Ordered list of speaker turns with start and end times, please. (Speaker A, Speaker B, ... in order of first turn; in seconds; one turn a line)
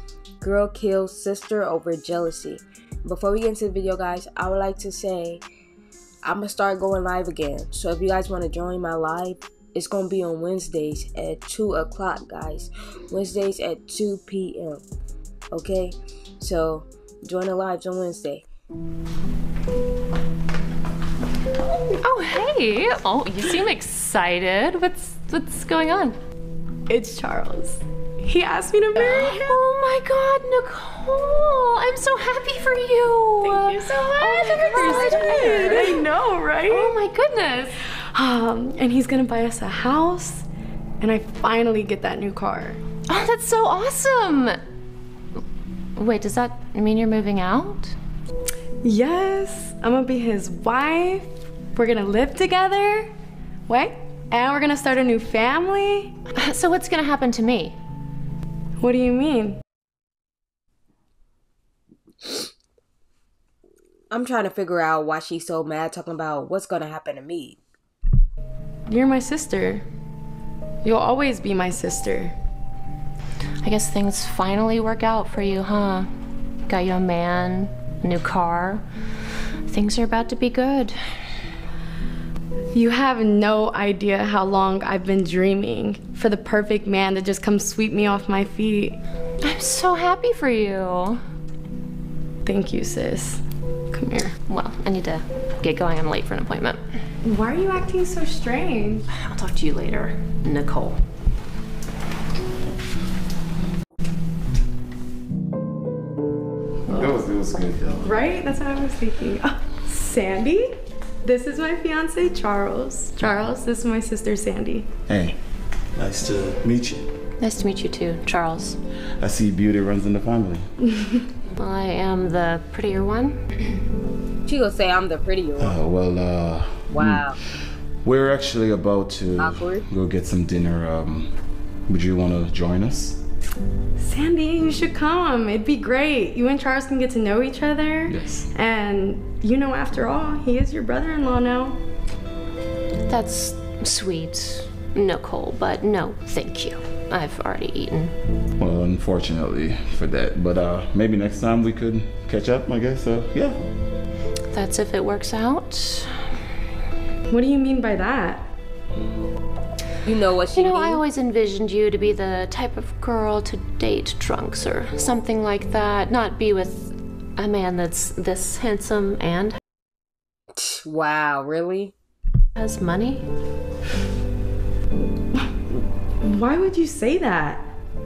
Speaker A: 0.4-5.4
Speaker A: 6.2-14.8
Speaker A: 15.5-18.4
Speaker B: 21.7-26.2
Speaker C: 26.9-29.6
Speaker B: 29.0-36.0
Speaker C: 33.4-37.0
Speaker A: 34.7-36.0
Speaker B: 36.7-37.8
Speaker C: 38.1-40.5
Speaker C: 41.0-42.8
Speaker B: 43.1-44.6
Speaker B: 46.0-48.0
Speaker C: 48.8-53.1
Speaker C: 53.7-56.1
Speaker B: 56.4-57.8
Speaker C: 58.8-59.6
Speaker A: 64.1-67.6
Speaker C: 68.9-69.8
Speaker C: 70.8-72.3
Speaker B: 73.6-76.1
Speaker B: 76.7-78.8
Speaker B: 79.7-81.0
Speaker C: 82.7-89.0
Speaker B: 89.4-91.2
Speaker C: 92.5-94.4
Speaker B: 94.5-96.8
Speaker C: 97.2-99.1
Speaker B: 99.1-101.0
Speaker D: 106.9-108.1
Speaker C: 108.0-110.7
Speaker C: 111.2-114.9
Speaker D: 115.1-115.4
Speaker D: 116.0-117.1
Speaker B: 117.4-118.8
Speaker D: 119.2-120.7
Speaker B: 121.6-123.4
Speaker A: 124.5-125.8
Speaker D: 125.6-127.3
Speaker A: 126.9-127.4
Speaker D: 128.0-131.3
Speaker A: 129.4-129.9
Speaker D: 131.9-133.2
Speaker C: 134.0-141.8
Speaker D: 138.1-138.5
Speaker B: 143.1-148.1
Speaker D: 148.6-153.6
Speaker B: 154.5-156.2
Speaker C: 157.3-158.5
Speaker A: 160.1-161.0
Speaker B: 160.6-169.6
Speaker A: 170.6-171.9
Speaker B: 172.6-173.3
Speaker C: 175.3-177.7